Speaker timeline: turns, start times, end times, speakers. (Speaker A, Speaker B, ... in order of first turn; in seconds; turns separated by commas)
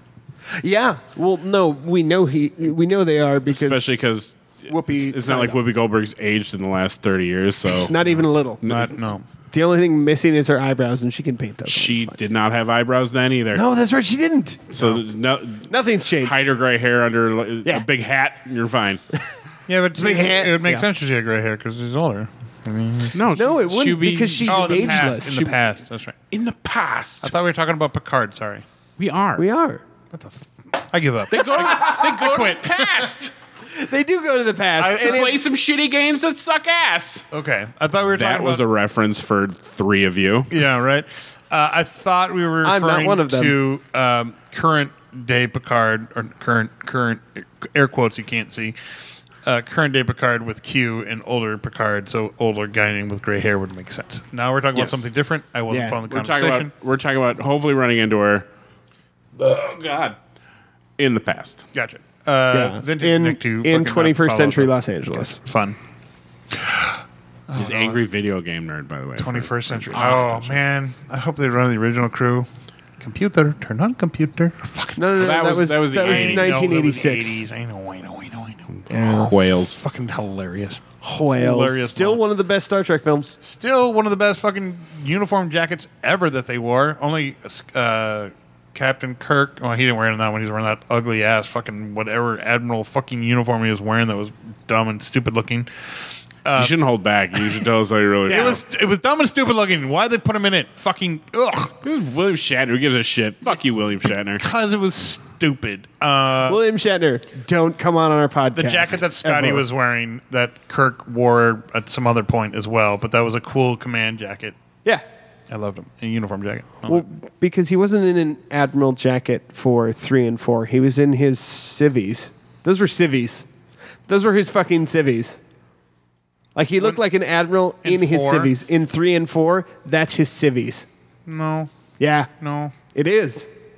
Speaker A: 0.5-4.0, Speaker B: 3.5-8.1, Speaker A: 4.7-5.6, Speaker A: 7.8-8.7, Speaker B: 8.6-8.9, Speaker C: 8.6-9.2, Speaker A: 9.5-12.2, Speaker B: 11.7-13.6, Speaker A: 13.5-14.7, Speaker B: 14.7-19.0, Speaker A: 15.7-16.3, Speaker C: 19.7-23.2, Speaker A: 19.9-20.9, Speaker B: 23.1-25.2, Speaker A: 23.3-25.5, Speaker C: 24.5-26.1, Speaker B: 26.3-27.3, Speaker C: 27.2-28.6, Speaker B: 29.0-29.4, Speaker A: 29.4-29.8, Speaker C: 30.1-33.1, Speaker B: 31.3-33.3, Speaker A: 33.7-35.3, Speaker C: 34.8-35.3, Speaker B: 34.9-37.3, Speaker C: 37.3-38.6, Speaker B: 38.0-40.5, Speaker C: 40.5-56.7, Speaker A: 42.6-43.5, Speaker A: 55.7-56.0, Speaker B: 56.1-58.5, Speaker B: 59.4-60.2, Speaker B: 61.0-61.6, Speaker C: 61.7-65.8, Speaker A: 62.5-65.4, Speaker C: 66.6-66.9, Speaker C: 67.5-68.0, Speaker B: 67.5-70.6, Speaker C: 69.2-72.5, Speaker C: 73.0-75.1, Speaker A: 75.0-77.4, Speaker B: 75.2-76.7, Speaker C: 76.0-80.8, Speaker B: 78.8-79.8, Speaker A: 78.9-79.3, Speaker A: 81.0-83.3, Speaker C: 81.3-82.2, Speaker C: 83.4-96.7, Speaker B: 96.6-98.6, Speaker A: 98.3-98.6, Speaker C: 98.3-101.8, Speaker B: 101.8-104.4, Speaker C: 104.4-106.6, Speaker A: 106.4-109.6, Speaker C: 108.5-114.5, Speaker C: 115.5-117.1, Speaker A: 116.8-123.5, Speaker A: 124.1-125.4, Speaker A: 126.5-130.9, Speaker C: 127.8-128.5, Speaker C: 131.3-131.7, Speaker A: 132.0-132.3, Speaker C: 132.4-132.7, Speaker A: 132.9-133.5